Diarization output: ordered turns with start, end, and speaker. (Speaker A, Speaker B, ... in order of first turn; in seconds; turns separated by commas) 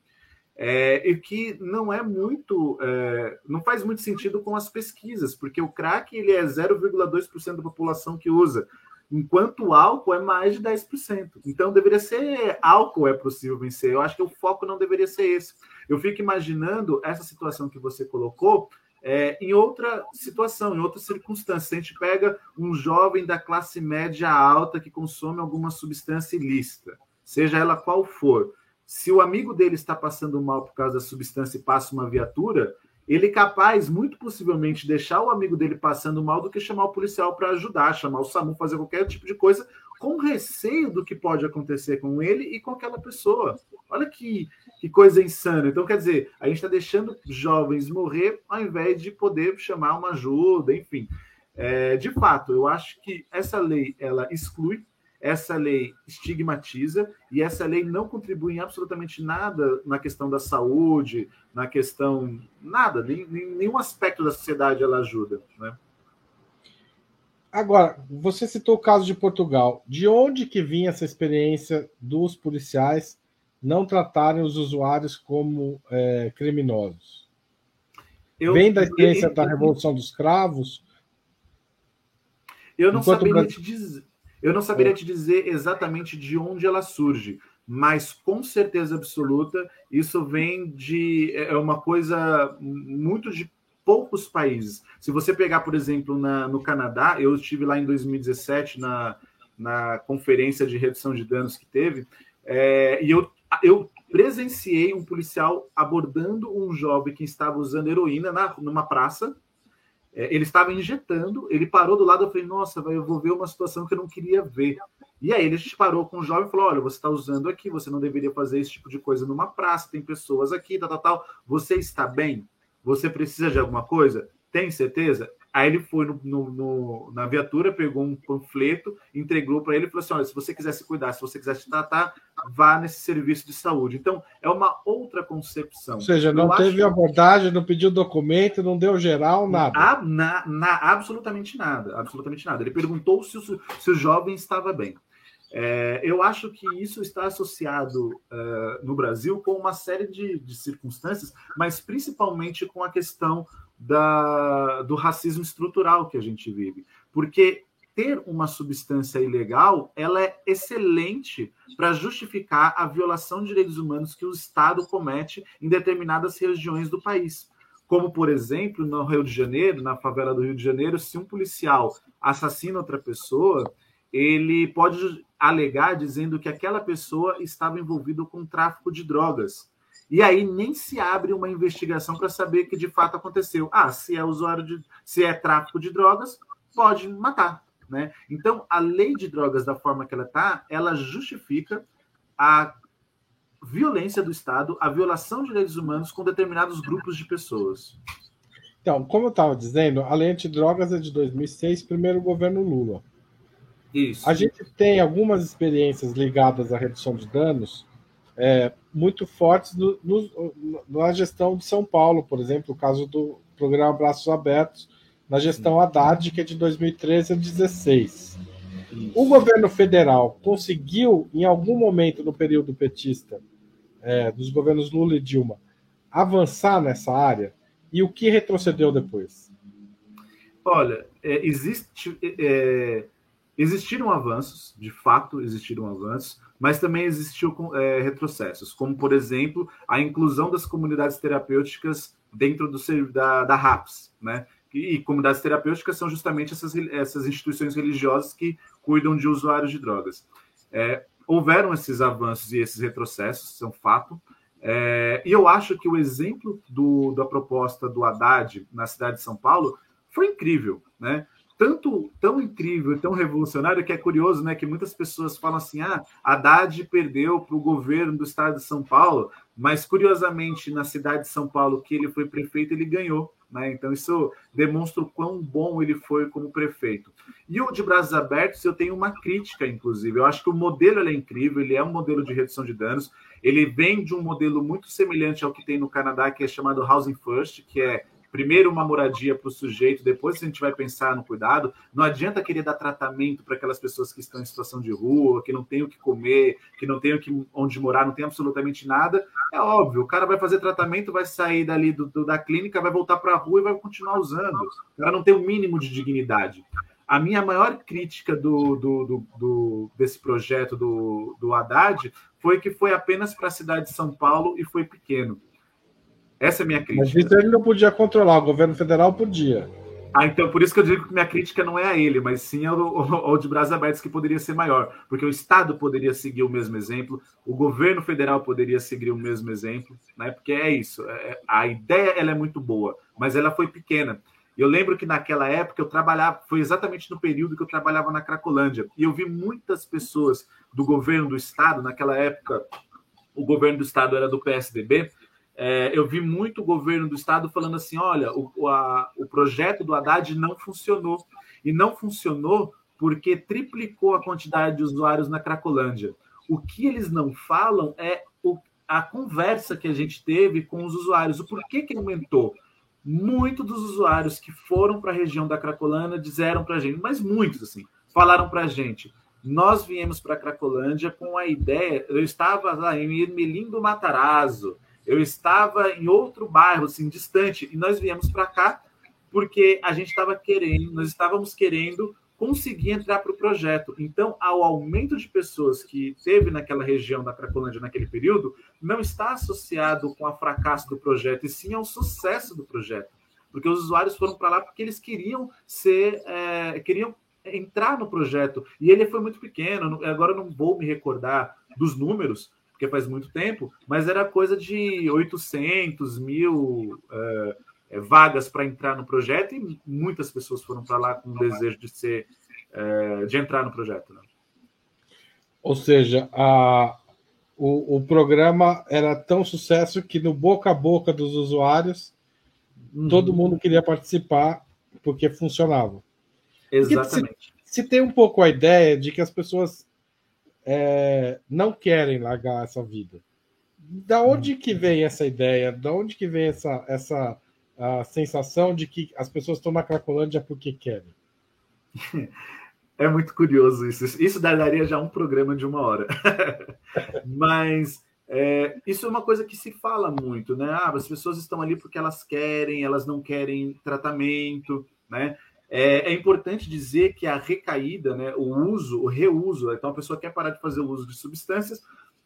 Speaker A: 0.6-65.8, Speaker B: 67.5-77.2, Speaker A: 78.4-79.7, Speaker B: 78.5-80.8, Speaker A: 82.8-109.3, Speaker B: 82.9-83.5, Speaker A: 110.1-136.9, Speaker B: 136.0-139.9, Speaker A: 139.5-145.0, Speaker A: 145.5-191.9, Speaker A: 192.4-192.8, Speaker A: 193.6-198.0, Speaker B: 198.8-203.0, Speaker A: 203.9-204.5, Speaker B: 204.2-207.9, Speaker B: 208.4-218.4, Speaker A: 218.9-219.3, Speaker B: 219.2-223.4, Speaker B: 224.0-225.6, Speaker B: 226.1-229.5, Speaker A: 230.7-315.4, Speaker A: 316.4-317.3, Speaker B: 316.9-319.7, Speaker A: 320.1-342.6, Speaker A: 343.4-414.2, Speaker B: 415.6-417.0, Speaker B: 417.6-422.1, Speaker A: 422.9-423.4, Speaker B: 423.1-426.0, Speaker A: 426.7-427.5, Speaker B: 426.8-429.9, Speaker B: 430.7-433.2, Speaker B: 433.8-441.1, Speaker A: 442.0-442.3, Speaker A: 443.0-461.8